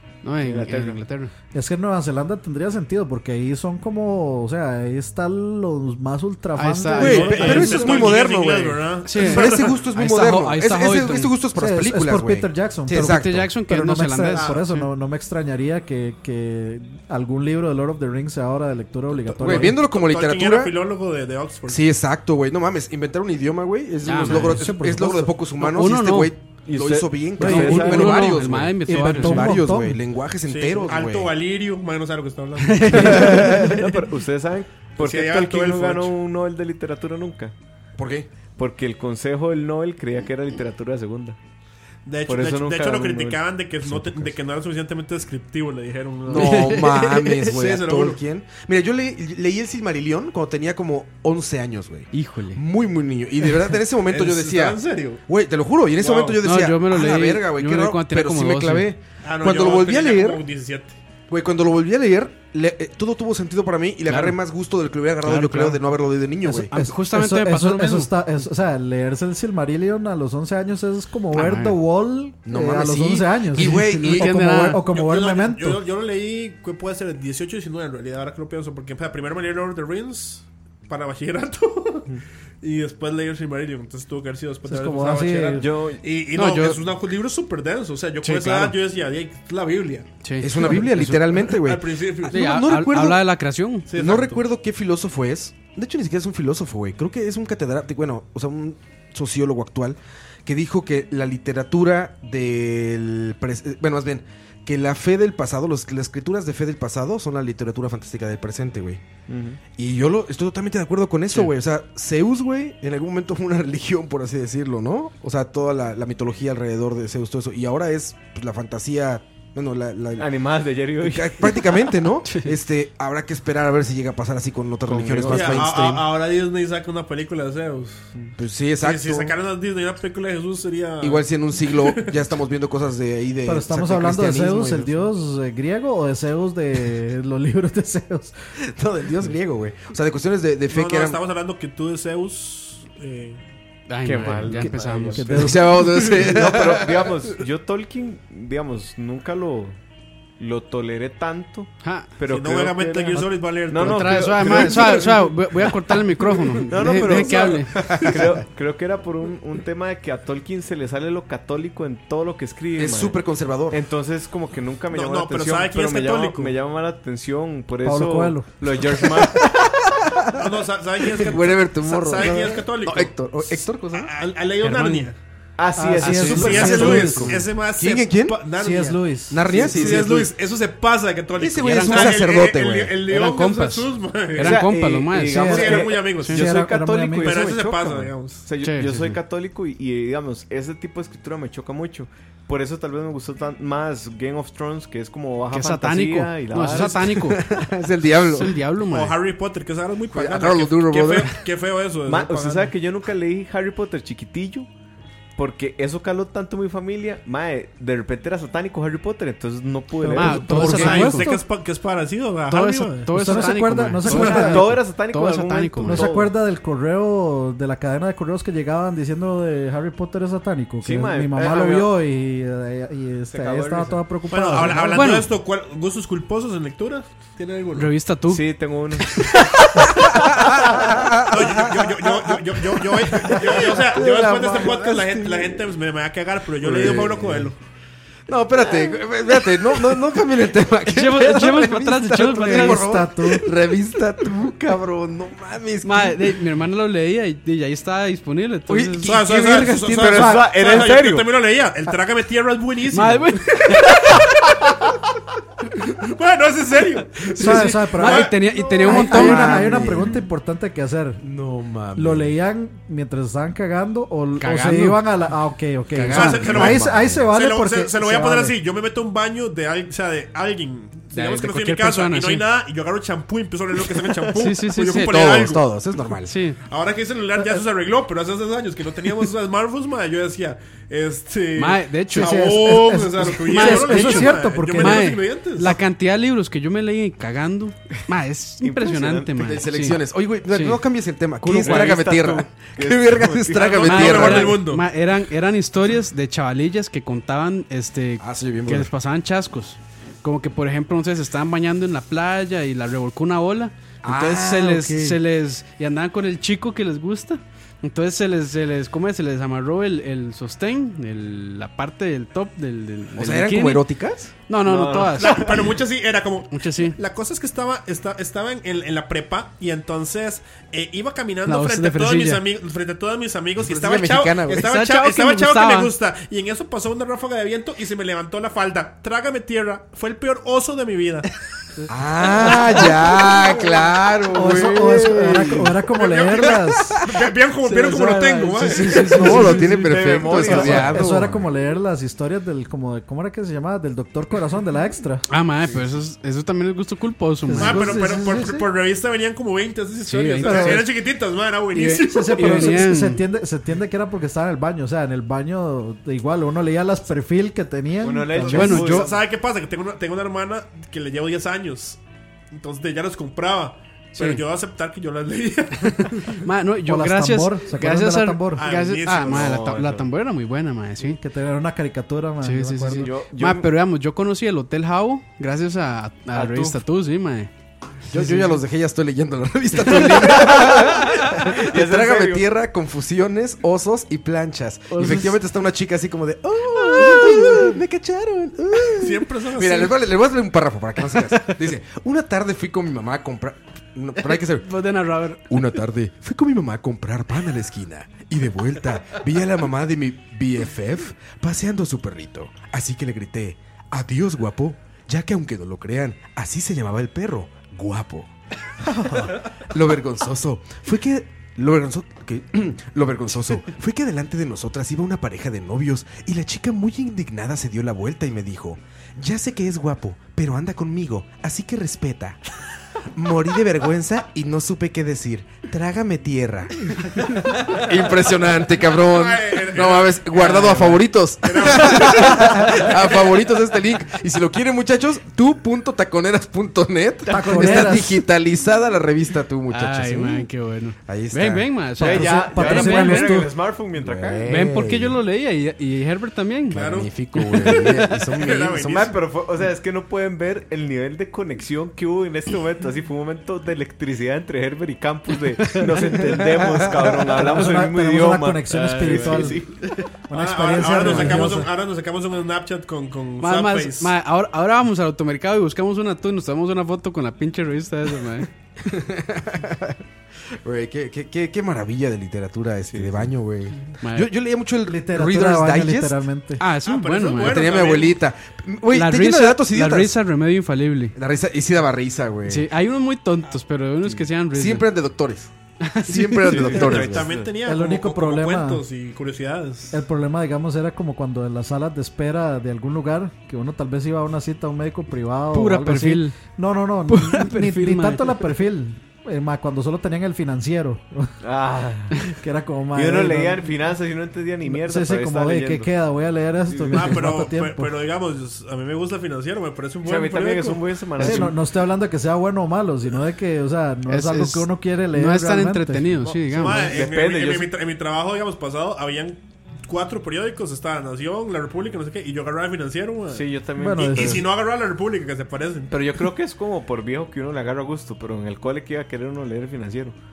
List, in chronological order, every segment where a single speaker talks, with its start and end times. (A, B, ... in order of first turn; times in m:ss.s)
0:00.2-0:01.3 A
0:00.4-0:01.0 B
0:01.5-0:07.7 C
0:06.6-0:08.1 A
0:07.0-0:09.8 D
0:07.0-0:13.5 E
0:09.0-0:11.3 A
0:11.6-0:19.8 C
0:12.9-0:14.9 A
0:14.3-0:14.6 D
0:19.4-0:20.7 E
0:19.5-0:21.8 D
0:21.7-0:31.3 E
0:24.0-0:24.7 A
0:24.2-0:25.3 C
0:25.6-0:26.3 A
0:26.7-0:28.3 B
0:27.4-0:27.9 C
0:27.4-0:29.6 A
0:28.8-0:30.0 C
0:30.5-0:33.5 D
0:32.6-0:33.9 A
0:33.0-0:37.5 B
0:35.0-0:36.1 D
0:38.0-0:38.3 E
0:38.6-0:41.4 B
0:42.0-0:46.8 D
0:42.2-0:43.4 B
0:43.8-0:44.3 E
0:46.3-1:00.4 E
0:46.3-0:47.4 A
0:47.4-0:48.2 D
0:52.1-0:52.6 A
0:54.0-0:55.2 D
0:56.0-0:56.4 D
0:56.4-0:58.9 A
0:59.2-1:01.0 D
1:01.3-1:06.7 E
1:04.1-1:04.4 A
1:05.2-1:05.8 A
1:06.4-1:15.8 C
1:06.7-1:08.1 A
1:11.3-1:11.8 A
1:12.4-1:14.7 E
1:13.6-1:14.8 A
1:14.9-1:30.1 D
1:24.7-1:25.7 C
1:25.6-1:26.0 B
1:26.3-1:26.8 A
1:28.2-1:28.8 A
1:30.2-1:31.5 A
1:30.4-1:33.2 E
1:31.5-1:32.5 D
1:32.3-1:33.9 A
1:33.9-1:34.4 D
1:33.9-1:49.0 E
1:49.3-1:49.6 B
1:49.8-2:00.3 E
2:00.2-2:01.7 B
2:01.0-2:06.1 E
2:02.2-2:02.5 A
2:04.8-2:05.8 B
2:05.3-2:08.1 D
2:08.4-2:09.3 E
2:08.8-2:12.2 D
2:11.0-2:14.9 E
2:13.4-2:18.3 C
2:18.6-2:21.2 E
2:20.7-2:23.4 D
2:23.9-2:25.5 A
2:24.0-2:29.8 B
2:25.2-2:25.8 C
2:25.4-2:27.2 E
2:30.4-2:33.0 B
2:31.8-2:32.1 A
2:32.3-2:35.7 D
2:32.8-2:33.3 C
2:33.7-2:35.1 B
2:33.8-2:37.9 A
2:36.6-2:49.5 B
2:36.8-2:38.3 D
2:42.8-2:43.8 E
2:44.9-2:46.5 D
2:47.8-2:48.5 C
2:49.2-2:50.4 E
2:50.3-2:53.1 D
2:51.0-2:54.1 E
2:53.9-2:55.2 D
2:54.6-2:55.1 A
2:55.6-2:57.4 B
2:55.7-2:57.4 C
2:56.0-2:56.2 A
2:56.0-3:04.7 D
2:56.8-2:58.4 E
2:58.6-2:59.4 C
2:59.3-3:00.3 E
2:59.6-3:00.0 B
3:01.4-3:03.0 E
3:01.6-3:02.2 A
3:03.1-3:05.4 A
3:04.4-3:17.2 B
3:05.3-3:07.5 C
3:05.3-3:06.4 D
3:07.2-3:08.5 D
3:08.6-3:09.2 A
3:15.5-3:17.4 A
3:17.0-3:18.6 E
3:18.3-3:19.2 A
3:18.9-3:22.7 D
3:20.1-3:21.4 E
3:22.0-3:24.7 B
3:25.4-3:31.1 B
3:30.1-3:31.4 A
3:30.2-3:31.3 C
3:30.5-3:33.1 D
3:30.6-3:30.9 E
3:32.5-3:36.0 A
3:33.1-3:34.7 C
3:34.0-3:36.3 B
3:35.8-3:45.1 C
3:40.8-3:41.9 B
3:43.3-3:44.0 B
3:44.3-3:47.9 D
3:44.9-3:45.3 A
3:47.7-3:50.1 A
3:48.3-3:49.3 B
3:50.2-3:52.4 E
3:51.3-3:57.6 D
3:53.0-3:55.7 E
3:56.6-3:57.5 E
3:58.3-4:06.3 E
4:00.9-4:02.9 A
4:02.4-4:03.5 C
4:05.8-4:09.2 A
4:08.7-4:10.5 E
4:09.0-4:14.8 D
4:10.0-4:11.3 B
4:10.1-4:10.4 C
4:12.9-4:14.2 A
4:16.0-4:19.1 D
4:17.2-4:19.7 A
4:17.4-4:21.2 C
4:19.0-4:20.2 E
4:21.2-4:22.3 E
4:21.9-4:28.6 C
4:24.4-4:25.2 A
4:25.9-4:26.7 A
4:26.1-4:35.6 D
4:26.1-4:27.3 E
4:31.1-4:32.4 A
4:34.3-4:35.3 A
4:34.9-4:36.3 E
4:36.2-4:36.6 A
4:36.7-4:45.8 D
4:41.6-4:42.6 A
4:42.1-4:45.1 C
4:43.4-4:50.8 A
4:48.6-4:49.3 B
4:49.4-4:54.6 E
4:51.4-4:54.6 B
4:53.5-4:54.8 D
4:53.8-5:13.8 A
4:58.2-4:58.9 E
5:04.0-5:05.2 E
5:13.2-5:14.3 E
5:14.5-5:15.6 A
5:14.6-5:15.8 B
5:15.1-5:31.3 D
5:16.5-5:17.0 A
5:21.4-5:22.4 A
5:23.6-5:24.6 E
5:24.5-5:25.9 A
5:31.9-5:35.7 E
5:34.3-5:37.0 C
5:35.8-5:39.5 D
5:37.6-5:40.9 A
5:39.0-5:41.5 E
5:39.7-5:41.1 B
5:40.3-5:45.2 C
5:45.3-5:48.0 A
5:45.6-5:45.9 B
5:47.5-5:48.6 C
5:47.5-5:52.9 D
5:50.0-5:50.9 A
5:50.4-5:50.8 C
5:51.7-5:53.2 A
5:51.9-5:58.9 C
5:58.0-5:59.2 B
5:58.5-5:59.1 A
5:58.5-6:02.0 D
6:02.5-6:06.4 D
6:04.1-6:04.4 A
6:05.8-6:11.2 A
6:06.8-6:08.7 C
6:08.6-6:09.6 D
6:09.2-6:10.1 B
6:11.2-6:13.1 C
6:12.4-6:17.5 A
6:13.0-6:13.7 B
6:16.3-6:16.8 B
6:18.1-6:34.8 E
6:18.1-6:18.6 A
6:19.8-6:20.9 A
6:20.5-6:22.4 B
6:24.9-6:25.4 A
6:26.8-6:27.7 A
6:29.0-6:30.0 D
6:34.2-6:35.6 A
6:35.5-6:48.3 E
6:48.8-7:02.4 E
7:03.1-7:20.5 E
7:08.9-7:13.3 D
7:10.4-7:11.0 A
7:17.3-7:18.2 C
7:17.4-7:17.8 B
7:19.7-7:23.4 A
7:21.1-7:21.7 E
7:22.0-7:23.5 C
7:22.0-7:24.7 B
7:24.0-7:25.2 E
7:24.4-7:28.0 A
7:26.7-7:27.1 D
7:26.7-7:28.8 E
7:27.7-7:29.2 D
7:28.7-7:39.8 B
7:35.6-7:36.2 A
7:36.2-7:37.0 E
7:37.3-7:39.6 C
7:40.3-7:41.7 C
7:40.3-7:44.1 D
7:41.0-7:41.3 B
7:43.4-7:48.5 A
7:48.8-7:50.0 E
7:50.5-7:56.2 E
7:52.9-7:53.3 B
7:54.0-7:54.3 A
7:54.9-7:56.6 C
7:56.6-7:57.7 A
7:56.8-7:58.2 D
7:57.4-8:00.2 E
7:58.9-8:01.1 A
8:01.1-8:02.7 E
8:02.5-8:04.9 A
8:04.5-8:07.3 E
8:05.8-8:06.8 A
8:06.5-8:07.6 B
8:06.6-8:10.0 D
8:07.6-8:08.8 C
8:09.9-8:21.3 C
8:15.5-8:16.4 A
8:17.1-8:18.6 A
8:21.4-8:22.3 B
8:22.4-8:23.7 C
8:22.9-8:25.9 B
8:24.6-8:27.9 C
8:26.7-8:27.2 B
8:26.9-8:30.9 D
8:30.0-8:31.6 B
8:31.2-8:36.1 C
8:34.1-8:37.0 A
8:36.2-8:37.7 B
8:36.5-8:46.0 D
8:43.3-8:44.5 B
8:43.8-8:44.5 C
8:45.9-8:50.2 B